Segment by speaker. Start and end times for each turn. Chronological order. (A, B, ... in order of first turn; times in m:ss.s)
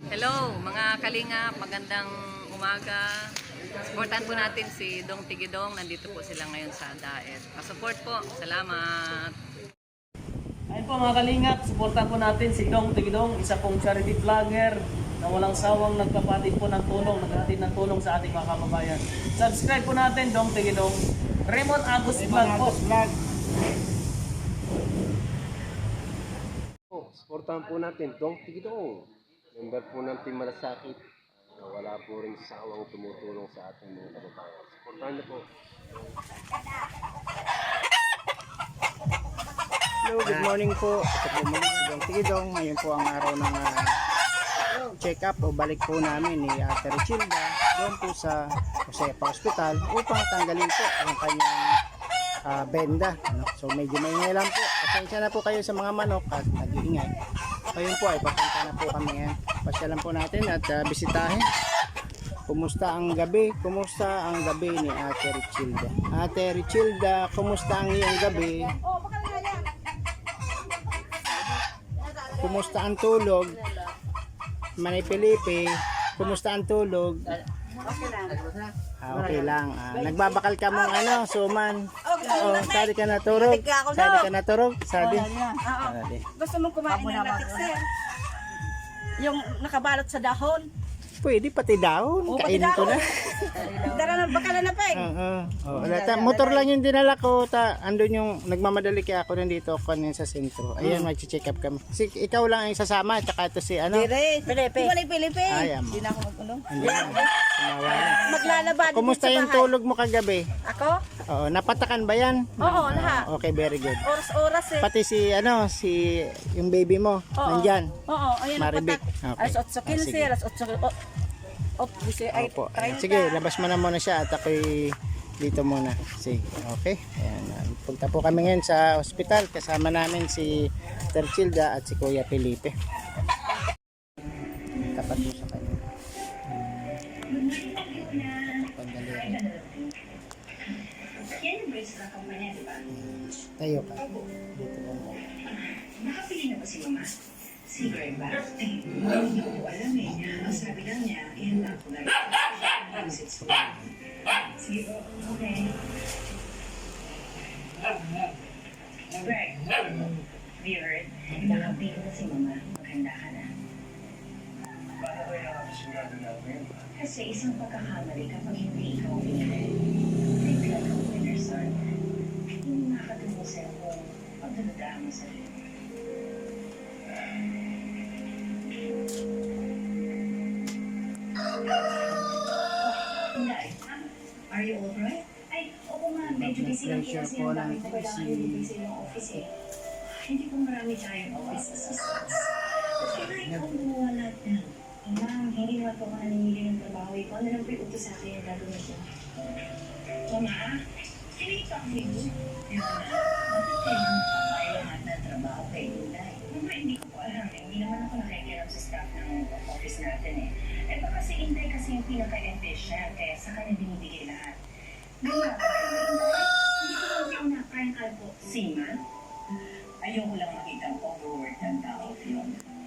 0:00.1-0:03.1 A
0:03.9-0:09.3 A
0:10.8-0:21.0 B
0:15.5-0:15.9 C
0:21.5-0:22.8 B
0:22.2-0:22.8 C
0:27.0-0:31.0 D
0:31.6-0:35.5 D
0:40.0-0:43.9 E
0:45.0-0:48.4 E
0:48.9-0:51.6 E
0:52.5-0:57.1 E
0:57.7-1:01.4 E
1:02.5-1:08.7 E
1:12.4-1:13.6 E
1:14.8-1:17.4 E
1:17.8-1:18.4 C
1:19.0-1:26.2 E
1:20.7-1:21.0 C
1:22.1-1:24.3 C
1:25.0-1:27.8 C
1:29.2-1:30.7 C
1:31.2-1:44.1 E
1:32.3-1:35.1 C
1:35.8-1:36.6 C
1:43.9-1:47.3 C
1:45.5-1:46.1 E
1:46.7-1:50.4 E
1:47.8-1:49.7 C
1:50.7-1:51.0 C
1:51.3-1:54.1 E
1:52.6-1:53.3 C
1:54.0-1:54.9 C
1:54.8-1:56.0 E
1:56.5-1:57.9 E
1:57.4-2:00.9 C
1:58.5-2:00.3 E
2:01.8-2:03.4 C
2:02.3-2:04.6 E
2:05.4-2:10.6 E
2:11.1-2:12.7 E
2:14.9-2:15.8 E
2:16.5-2:16.8 E
2:17.3-2:19.9 F
2:17.9-2:19.4 E
2:21.3-2:22.9 F
2:22.9-2:25.2 E
2:24.0-2:24.2 F
2:25.5-2:27.1 F
2:27.7-2:33.9 F
2:30.4-2:30.6 E
2:34.6-2:35.7 F
2:39.1-2:43.5 F
2:45.0-2:49.7 F
2:50.4-2:51.7 F
2:52.6-2:55.5 F
3:01.8-3:02.3 F
3:02.8-3:09.5 F
3:06.2-3:09.4 E
3:10.3-3:19.0 F
3:13.3-3:13.6 E
3:20.3-3:20.7 F
3:21.3-3:34.5 F
3:35.2-3:38.9 F
3:40.0-3:42.5 F